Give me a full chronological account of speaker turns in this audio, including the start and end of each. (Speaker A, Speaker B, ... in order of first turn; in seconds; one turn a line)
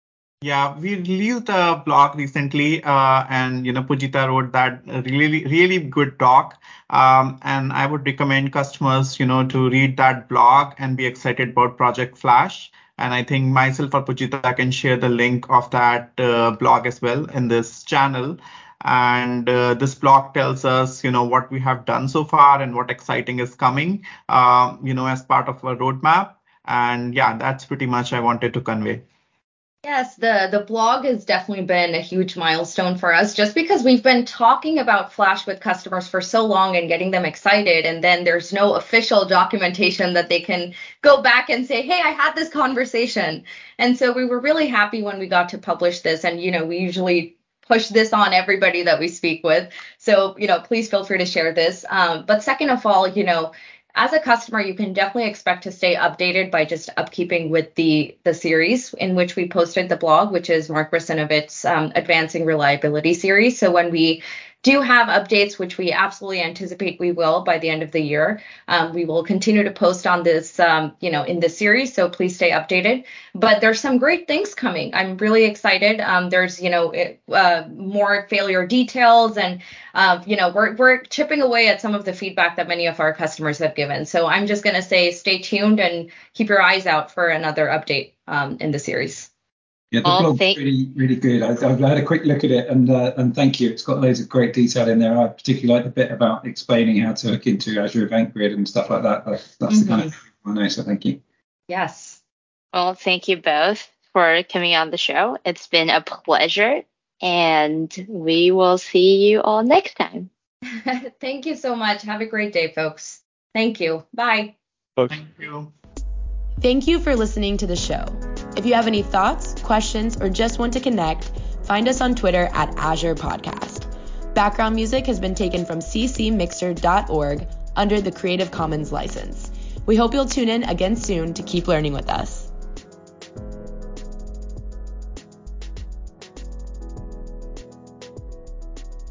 Speaker A: 0.4-29.0
Speaker B: 29.8-89.3
Speaker C: 89.9-101.2
Speaker D: 90.0-90.6
Speaker B: 99.7-100.0
Speaker B: 101.7-102.2
Speaker D: 102.7-110.3
Speaker B: 110.7-114.5
Speaker A: 115.1-115.7
Speaker E: 116.6-132.5